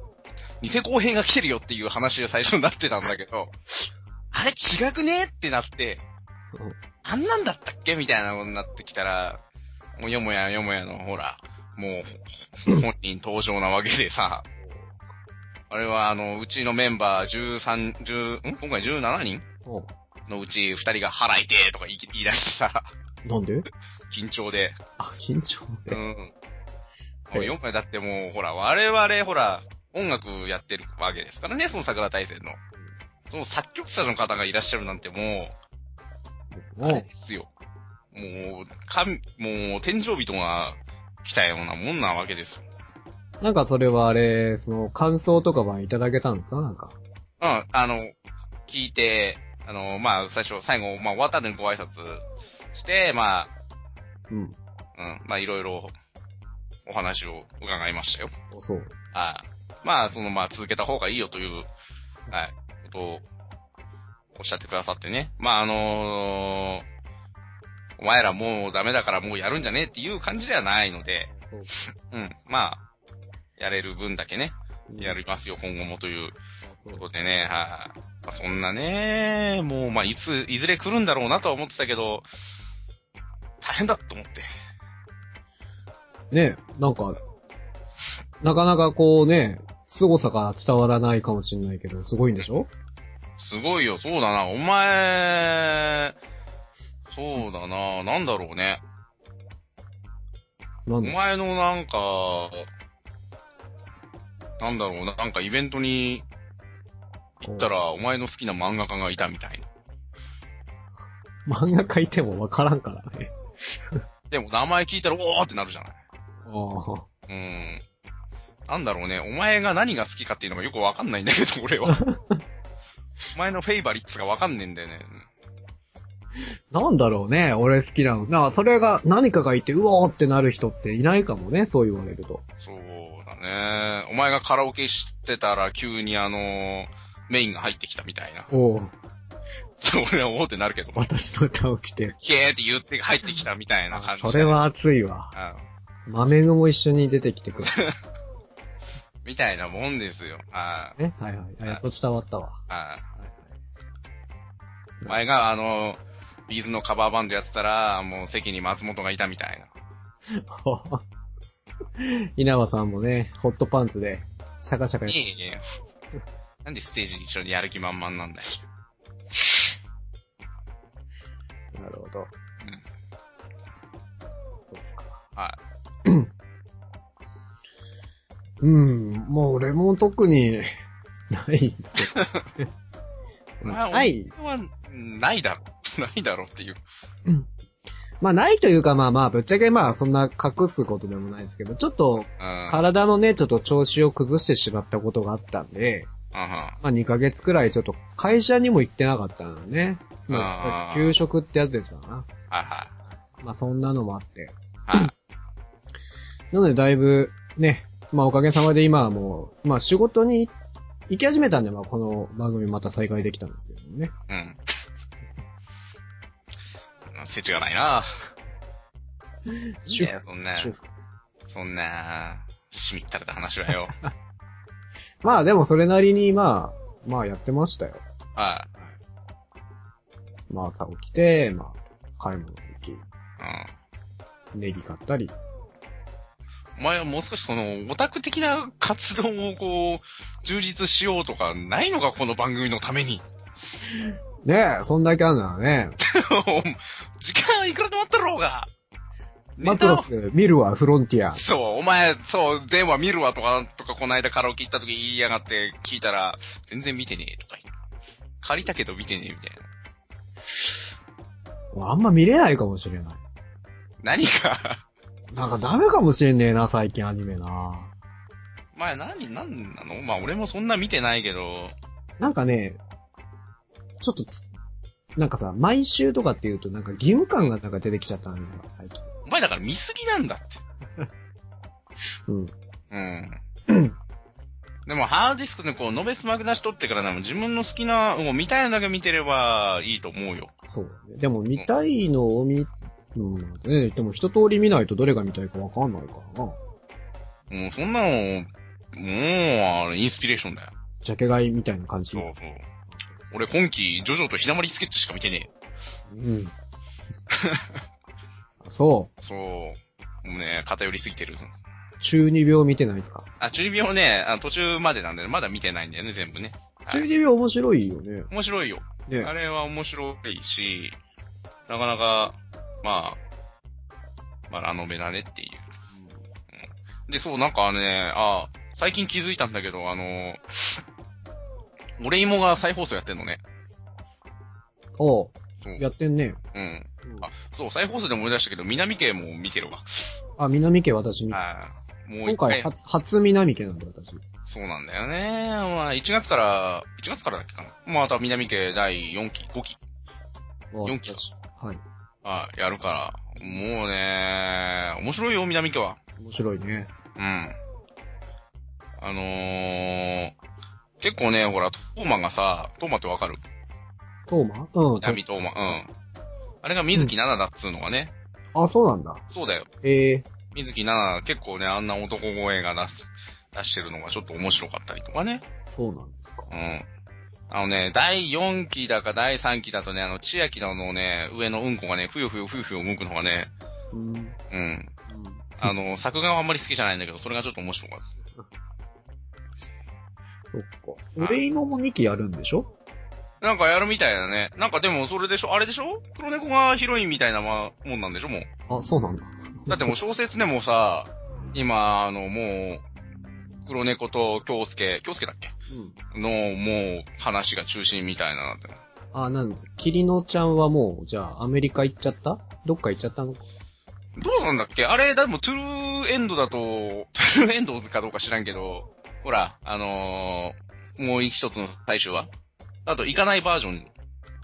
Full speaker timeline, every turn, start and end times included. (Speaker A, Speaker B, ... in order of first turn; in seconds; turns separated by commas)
Speaker A: 0.6-3.5, Speaker A: 4.3-6.0, Speaker A: 7.0-9.4, Speaker A: 10.0-14.5, Speaker B: 14.6-14.9, Speaker A: 15.7-19.4, Speaker A: 20.3-22.9, Speaker B: 23.2-23.7, Speaker A: 24.1-24.8, Speaker B: 25.0-26.0, Speaker A: 25.9-26.3, Speaker A: 27.3-32.6, Speaker A: 33.3-35.5, Speaker B: 36.5-37.0, Speaker A: 36.8-37.5, Speaker A: 38.1-42.6, Speaker B: 43.4-47.0, Speaker A: 47.4-48.1, Speaker A: 48.7-53.5, Speaker B: 54.3-54.5, Speaker A: 55.0-55.9, Speaker A: 56.9-58.3, Speaker B: 58.5-58.9, Speaker A: 59.1-61.7, Speaker A: 62.3-63.2, Speaker A: 64.3-66.8, Speaker A: 68.0-72.8, Speaker B: 71.3-71.7, Speaker A: 73.6-76.3, Speaker B: 74.9-75.2, Speaker B: 76.6-77.0, Speaker A: 76.9-82.2, Speaker A: 83.6-84.5, Speaker B: 86.3-87.2, Speaker B: 88.4-92.7, Speaker A: 93.4-96.2, Speaker A: 97.1-98.8, Speaker B: 100.8-101.2, Speaker A: 101.0-102.7, Speaker A: 104.6-106.2, Speaker B: 107.4-107.7, Speaker A: 107.4-109.6, Speaker B: 111.5-114.0, Speaker A: 114.3-116.0, Speaker B: 116.4-117.0, Speaker A: 117.3-117.8, Speaker A: 118.7-122.0, Speaker B: 121.9-122.4, Speaker A: 123.3-125.3, Speaker B: 126.7-132.4, Speaker A: 132.6-138.5, Speaker B: 138.5-138.9, Speaker A: 139.8-141.0, Speaker B: 140.9-142.2, Speaker A: 142.2-144.6, Speaker B: 143.9-145.3, Speaker A: 145.3-145.6, Speaker B: 146.1-147.7, Speaker A: 147.6-147.9, Speaker A: 149.2-151.0, Speaker B: 151.0-152.6, Speaker A: 152.7-153.0, Speaker B: 153.2-153.5, Speaker A: 155.1-159.7, Speaker B: 160.3-161.0, Speaker B: 162.0-165.2, Speaker A: 165.1-165.6, Speaker A: 166.6-168.6, Speaker B: 171.7-172.3, Speaker B: 174.7-175.2, Speaker B: 176.0-176.3, Speaker B: 178.6-180.7, Speaker B: 181.3-182.7, Speaker A: 182.0-182.5, Speaker B: 183.6-184.3, Speaker A: 183.6-186.8, Speaker B: 188.2-196.1, Speaker A: 192.4-192.8, Speaker A: 196.3-196.8, Speaker B: 196.8-202.3, Speaker A: 200.3-201.2, Speaker A: 202.5-202.9, Speaker B: 203.4-205.1, Speaker A: 204.9-205.1, Speaker B: 206.5-210.5, Speaker B: 211.1-214.1, Speaker A: 214.3-214.6, Speaker A: 217.1-218.1, Speaker B: 219.5-220.8, Speaker A: 219.9-220.7, Speaker A: 221.5-223.9, Speaker B: 225.2-228.0, Speaker A: 228.3-228.7, Speaker B: 230.5-233.0, Speaker A: 233.4-233.7, Speaker B: 234.5-235.3, Speaker A: 236.8-243.2, Speaker B: 243.9-246.0, Speaker A: 246.0-248.7, Speaker A: 249.6-250.1, Speaker B: 249.6-251.4, Speaker A: 251.3-257.7, Speaker A: 258.4-259.6, Speaker B: 261.7-263.2, Speaker A: 264.0-264.8, Speaker B: 265.3-267.9, Speaker A: 268.7-271.7, Speaker B: 272.2-272.8, Speaker B: 274.0-274.4, Speaker B: 275.1-279.1, Speaker A: 279.2-280.6, Speaker B: 282.3-282.5, Speaker A: 282.9-283.4, Speaker B: 283.7-283.9, Speaker A: 284.9-290.5, Speaker B: 290.7-296.6, Speaker A: 297.5-300.7, Speaker B: 301.0-302.3, Speaker A: 302.1-302.6, Speaker A: 303.3-305.5, Speaker B: 306.1-306.5, Speaker A: 307.3-307.8, Speaker B: 308.6-309.1, Speaker A: 309.2-311.5, Speaker B: 312.0-313.3, Speaker A: 313.4-317.1, Speaker B: 316.9-318.3, Speaker A: 318.3-320.9, Speaker B: 319.1-319.3, Speaker A: 321.7-323.2, Speaker A: 324.5-325.7, Speaker B: 325.9-326.2, Speaker A: 326.5-330.8, Speaker A: 332.0-333.4, Speaker B: 335.0-336.4, Speaker A: 336.5-340.1, Speaker B: 340.4-341.4, Speaker A: 341.3-342.7, Speaker B: 342.2-344.2, Speaker A: 344.5-349.8, Speaker B: 350.7-351.8, Speaker A: 350.8-351.2, Speaker A: 352.2-356.0, Speaker B: 356.2-356.9, Speaker A: 357.2-357.6, Speaker A: 359.0-360.3, Speaker A: 361.0-363.4, Speaker B: 364.3-365.8, Speaker A: 365.0-365.9, Speaker A: 366.6-368.1, Speaker B: 368.5-369.2, Speaker A: 369.3-369.7, Speaker B: 369.8-370.3, Speaker A: 370.5-375.4, Speaker B: 375.7-376.5, Speaker A: 376.5-376.9, Speaker A: 377.5-383.5, Speaker B: 383.9-384.4, Speaker A: 384.5-384.9, Speaker B: 385.1-385.7, Speaker A: 385.6-388.1, Speaker B: 390.5-392.7, Speaker A: 393.4-398.5, Speaker B: 398.7-399.9, Speaker A: 399.7-402.8, Speaker A: 403.6-405.5, Speaker B: 405.7-406.0, Speaker A: 406.1-408.8, Speaker B: 409.1-413.4, Speaker A: 414.2-422.3, Speaker A: 422.9-423.9